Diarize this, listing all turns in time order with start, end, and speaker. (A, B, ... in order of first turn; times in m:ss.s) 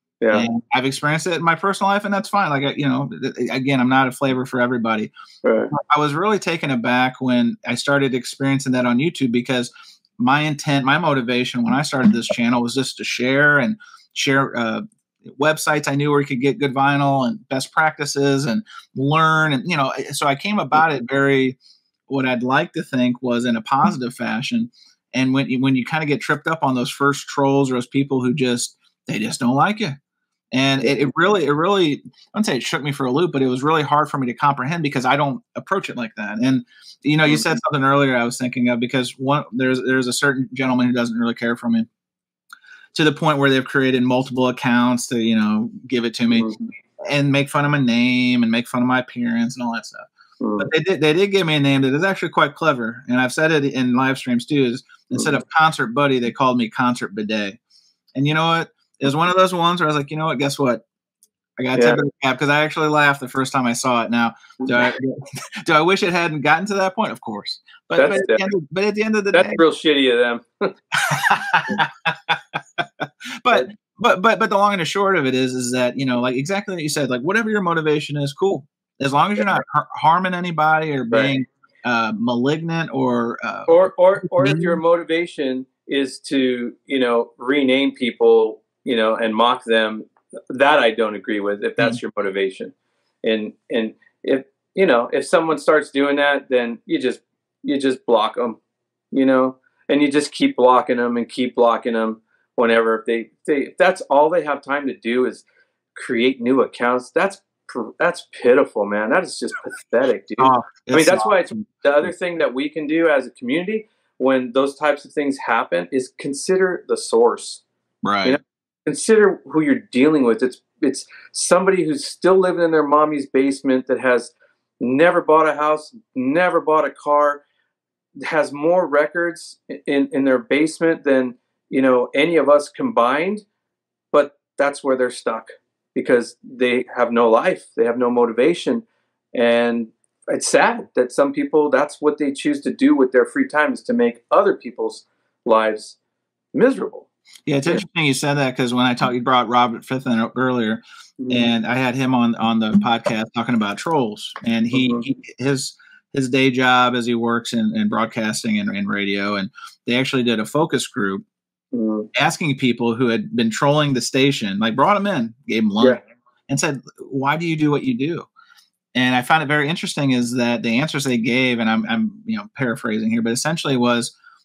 0:00.2-0:00.5 A
0:00.3-0:05.1 B
0:05.4-0:05.7 A
0:05.7-0:21.6 B
0:22.1-0:30.0 B
0:30.5-0:41.9 B
0:30.8-0:31.1 A
0:37.3-0:37.6 A
0:42.9-0:50.1 B
0:46.3-0:46.6 A
0:50.4-0:50.7 A
0:50.6-0:57.6 B
0:58.2-1:00.8 B
1:01.6-1:09.6 B
1:04.6-1:04.9 A
1:08.0-1:08.5 A
1:09.3-1:10.7 A
1:10.9-1:24.8 B
1:23.7-1:38.6 A
1:39.1-1:45.4 A
1:46.0-1:57.6 A
1:50.4-1:51.7 B
1:58.0-1:58.4 B
1:58.2-2:07.4 A
2:08.2-2:13.4 A
2:14.1-2:26.0 A
2:26.5-2:27.1 A
2:27.5-2:41.2 B
2:31.2-2:31.5 A
2:34.7-2:35.0 A
2:41.7-2:42.1 A
2:42.1-2:48.3 B
2:49.0-2:54.1 B